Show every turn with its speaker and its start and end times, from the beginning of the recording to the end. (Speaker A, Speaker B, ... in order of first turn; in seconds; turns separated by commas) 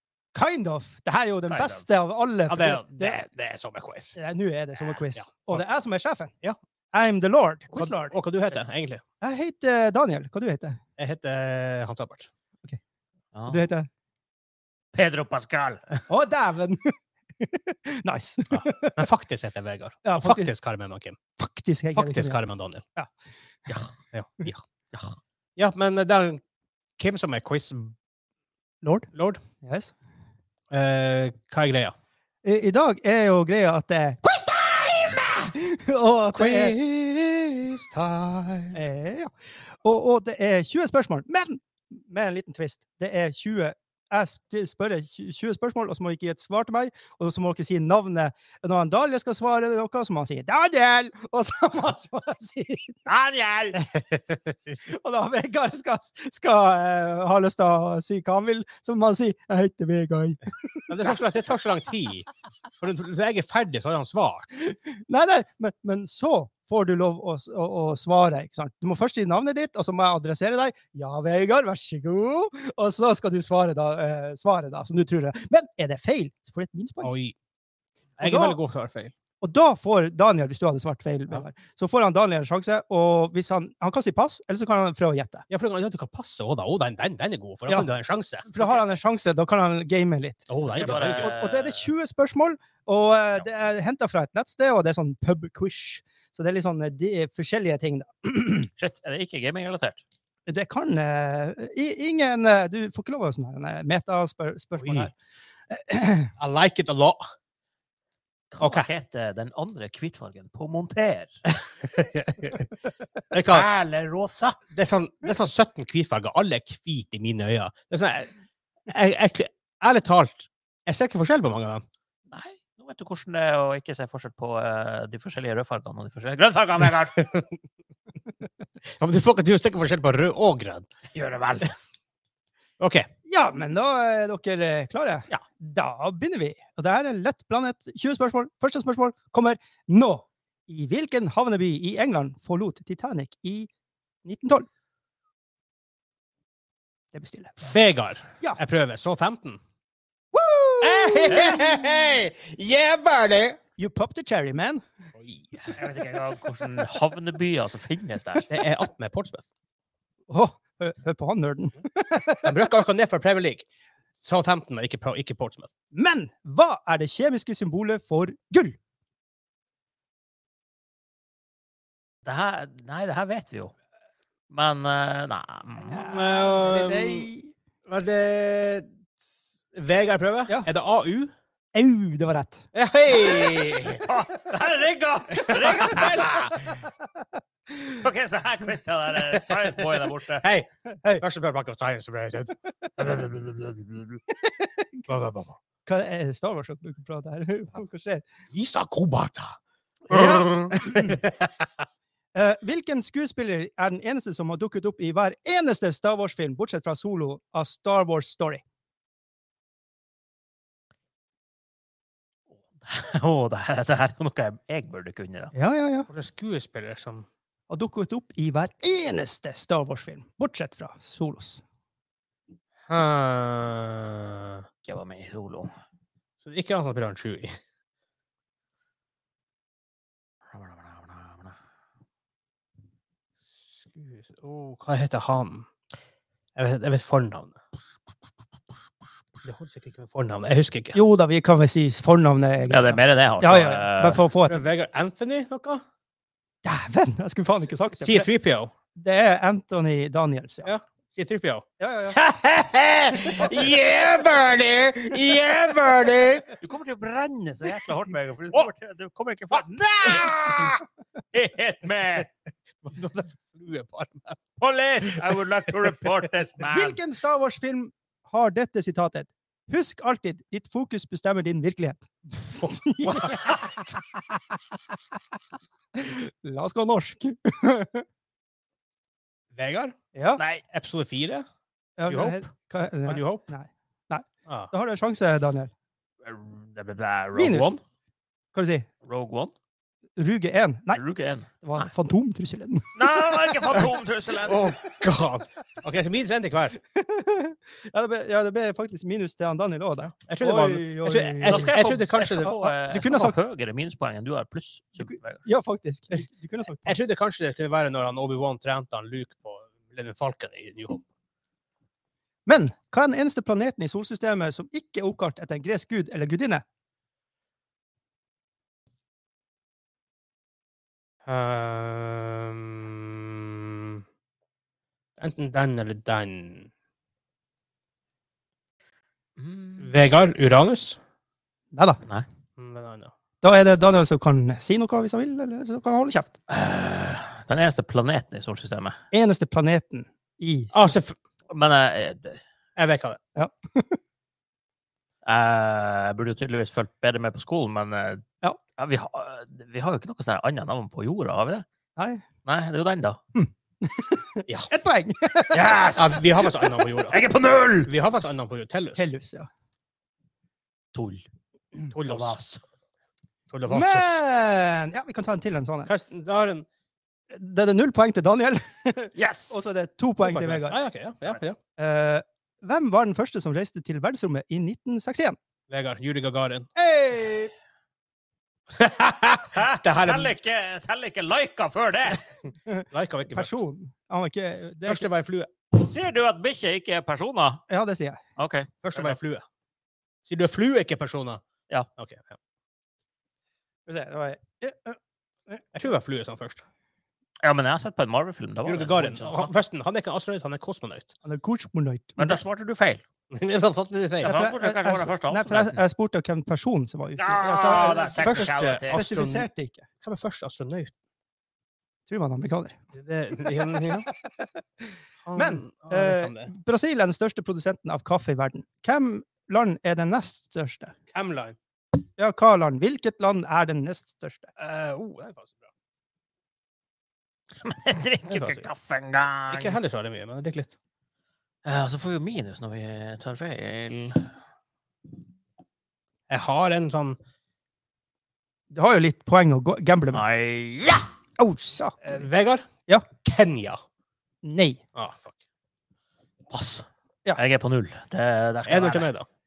Speaker A: 0.3-3.2, Speaker B: 1.5-1.8, Speaker C: 2.5-4.2, Speaker A: 4.2-6.3, Speaker C: 4.9-5.6, Speaker A: 6.9-8.2, Speaker C: 7.7-9.0, Speaker A: 9.2-10.8, Speaker C: 11.0-12.3, Speaker B: 13.3-13.6, Speaker A: 13.5-13.9, Speaker B: 14.9-15.8, Speaker A: 16.1-19.1, Speaker C: 18.6-21.2, Speaker A: 20.0-20.5, Speaker A: 21.4-22.4, Speaker C: 21.9-22.8, Speaker C: 24.1-24.6, Speaker C: 25.6-26.4, Speaker C: 27.0-27.9, Speaker A: 28.8-29.1, Speaker C: 29.1-29.4, Speaker A: 29.6-29.9, Speaker C: 30.7-31.9, Speaker A: 32.4-36.8, Speaker C: 36.3-38.8, Speaker A: 38.7-53.0, Speaker B: 53.0-53.8, Speaker A: 53.7-54.0, Speaker A: 54.8-61.4, Speaker C: 60.9-64.5, Speaker A: 64.9-77.1, Speaker C: 77.0-77.3, Speaker C: 78.2-79.1, Speaker A: 78.2-78.6, Speaker A: 79.4-85.5, Speaker C: 85.5-88.7, Speaker A: 88.4-98.7, Speaker C: 90.5-91.3, Speaker B: 90.7-91.9, Speaker B: 98.8-100.0, Speaker A: 100.5-105.1, Speaker C: 104.8-105.1, Speaker A: 105.7-106.3, Speaker C: 106.4-107.2, Speaker B: 108.5-111.4, Speaker C: 108.6-108.9, Speaker C: 111.8-112.7, Speaker C: 113.3-113.7, Speaker B: 113.5-114.6, Speaker C: 114.7-118.3, Speaker C: 118.9-121.8, Speaker B: 122.3-127.4, Speaker C: 129.0-130.9, Speaker B: 131.1-131.7, Speaker C: 132.8-133.1, Speaker A: 133.3-143.7, Speaker A: 144.2-144.7, Speaker A: 147.1-147.7, Speaker C: 147.6-149.6, Speaker A: 150.3-151.7, Speaker C: 150.8-153.6, Speaker B: 151.3-151.6, Speaker A: 153.8-154.8, Speaker C: 155.2-155.8, Speaker B: 155.7-158.5, Speaker C: 158.5-159.4, Speaker A: 160.3-162.6, Speaker C: 162.4-165.7, Speaker A: 165.9-168.8, Speaker B: 172.2-173.7, Speaker B: 174.5-176.1, Speaker A: 175.9-177.5, Speaker C: 175.9-177.3, Speaker C: 177.9-178.9, Speaker C: 179.7-181.3, Speaker A: 181.7-182.7, Speaker C: 182.7-184.1, Speaker B: 183.1-186.8, Speaker C: 185.4-186.5, Speaker A: 185.8-186.0, Speaker B: 188.0-190.4, Speaker C: 190.4-193.6, Speaker B: 193.1-194.2, Speaker A: 194.3-195.0, Speaker C: 195.1-195.6, Speaker A: 195.8-198.2, Speaker C: 198.5-199.6, Speaker A: 200.1-201.2, Speaker C: 200.1-201.7, Speaker A: 202.3-208.6, Speaker B: 212.7-215.5, Speaker A: 215.5-216.1, Speaker C: 216.1-217.3, Speaker A: 217.7-221.6, Speaker C: 222.9-224.6, Speaker B: 224.8-225.7, Speaker C: 226.4-227.6, Speaker B: 230.5-231.5, Speaker C: 233.7-235.7, Speaker C: 236.6-237.6, Speaker C: 239.4-241.0, Speaker A: 240.9-244.6, Speaker B: 242.7-244.2, Speaker C: 244.4-245.8, Speaker A: 246.6-248.3, Speaker C: 248.0-248.7, Speaker A: 248.9-250.7, Speaker C: 250.6-251.6, Speaker A: 251.8-252.2, Speaker C: 252.3-256.5, Speaker B: 252.6-255.2, Speaker B: 256.6-260.8, Speaker C: 259.5-260.7, Speaker B: 261.3-262.3, Speaker C: 262.8-264.4, Speaker B: 264.6-267.0, Speaker C: 265.1-265.4, Speaker A: 266.6-274.2, Speaker C: 272.6-273.5, Speaker A: 275.9-278.0, Speaker C: 279.5-279.9, Speaker A: 280.1-280.4, Speaker B: 280.4-280.6, Speaker C: 280.7-281.5, Speaker A: 282.0-285.7, Speaker C: 282.1-282.4, Speaker C: 283.1-283.5, Speaker C: 284.4-284.7, Speaker B: 286.2-287.8, Speaker A: 287.3-287.8, Speaker A: 288.5-288.9, Speaker B: 289.0-289.5, Speaker A: 290.2-291.0, Speaker B: 290.9-291.5, Speaker A: 291.6-293.0, Speaker B: 292.9-294.7, Speaker C: 294.4-296.8, Speaker A: 296.9-303.4, Speaker C: 300.2-302.6, Speaker B: 301.4-305.4, Speaker A: 305.0-307.0, Speaker C: 306.8-311.1, Speaker A: 312.4-316.6, Speaker C: 321.2-324.0, Speaker C: 325.2-326.7, Speaker B: 329.4-329.9, Speaker C: 329.8-331.0, Speaker A: 331.7-332.0, Speaker C: 332.6-333.1, Speaker A: 333.4-336.4, Speaker B: 336.5-339.0, Speaker A: 339.1-340.9, Speaker C: 340.7-341.1, Speaker B: 341.5-342.4, Speaker C: 342.8-343.2, Speaker A: 343.4-344.0, Speaker B: 345.2-348.2, Speaker B: 348.8-351.6, Speaker A: 352.0-352.2, Speaker B: 352.4-353.2, Speaker A: 353.3-355.7, Speaker B: 355.5-356.2, Speaker C: 355.9-357.2, Speaker B: 356.8-357.9, Speaker C: 357.9-359.1, Speaker A: 358.9-359.5, Speaker B: 360.9-361.2, Speaker C: 361.9-362.4, Speaker B: 362.0-362.6, Speaker C: 363.5-364.1, Speaker A: 363.7-365.9, Speaker C: 365.9-366.7, Speaker A: 367.3-370.8, Speaker B: 369.1-369.7, Speaker C: 370.2-371.6, Speaker A: 371.8-375.4, Speaker C: 375.7-376.7, Speaker A: 376.8-377.5, Speaker C: 378.8-380.4, Speaker B: 379.5-382.2, Speaker A: 382.6-385.1, Speaker C: 382.9-383.6, Speaker C: 384.8-385.5, Speaker B: 385.7-387.6, Speaker A: 387.7-388.2, Speaker B: 388.4-389.2, Speaker C: 388.8-389.4, Speaker C: 390.2-391.4, Speaker C: 391.9-392.4, Speaker A: 393.9-395.6, Speaker C: 395.7-396.6, Speaker B: 397.4-399.5, Speaker C: 398.6-401.1, Speaker A: 401.2-402.4, Speaker B: 402.2-403.0, Speaker C: 403.3-404.4, Speaker B: 404.2-405.8, Speaker A: 404.3-409.8, Speaker B: 407.2-409.0, Speaker C: 407.7-409.5, Speaker C: 410.0-410.9, Speaker A: 412.1-412.8, Speaker C: 412.9-414.1, Speaker A: 413.5-414.8, Speaker C: 415.2-416.5, Speaker A: 415.3-420.9, Speaker C: 421.1-421.6, Speaker A: 422.2-424.5, Speaker C: 424.6-425.7, Speaker B: 427.6-429.8, Speaker C: 428.3-428.7, Speaker C: 429.5-430.7, Speaker B: 431.6-434.3, Speaker C: 436.3-437.2, Speaker A: 438.7-440.2, Speaker B: 440.1-441.1, Speaker A: 441.4-442.0, Speaker C: 442.0-442.6, Speaker C: 443.2-443.8, Speaker A: 444.4-444.8, Speaker C: 444.9-445.4, Speaker B: 446.5-449.1, Speaker C: 448.6-449.3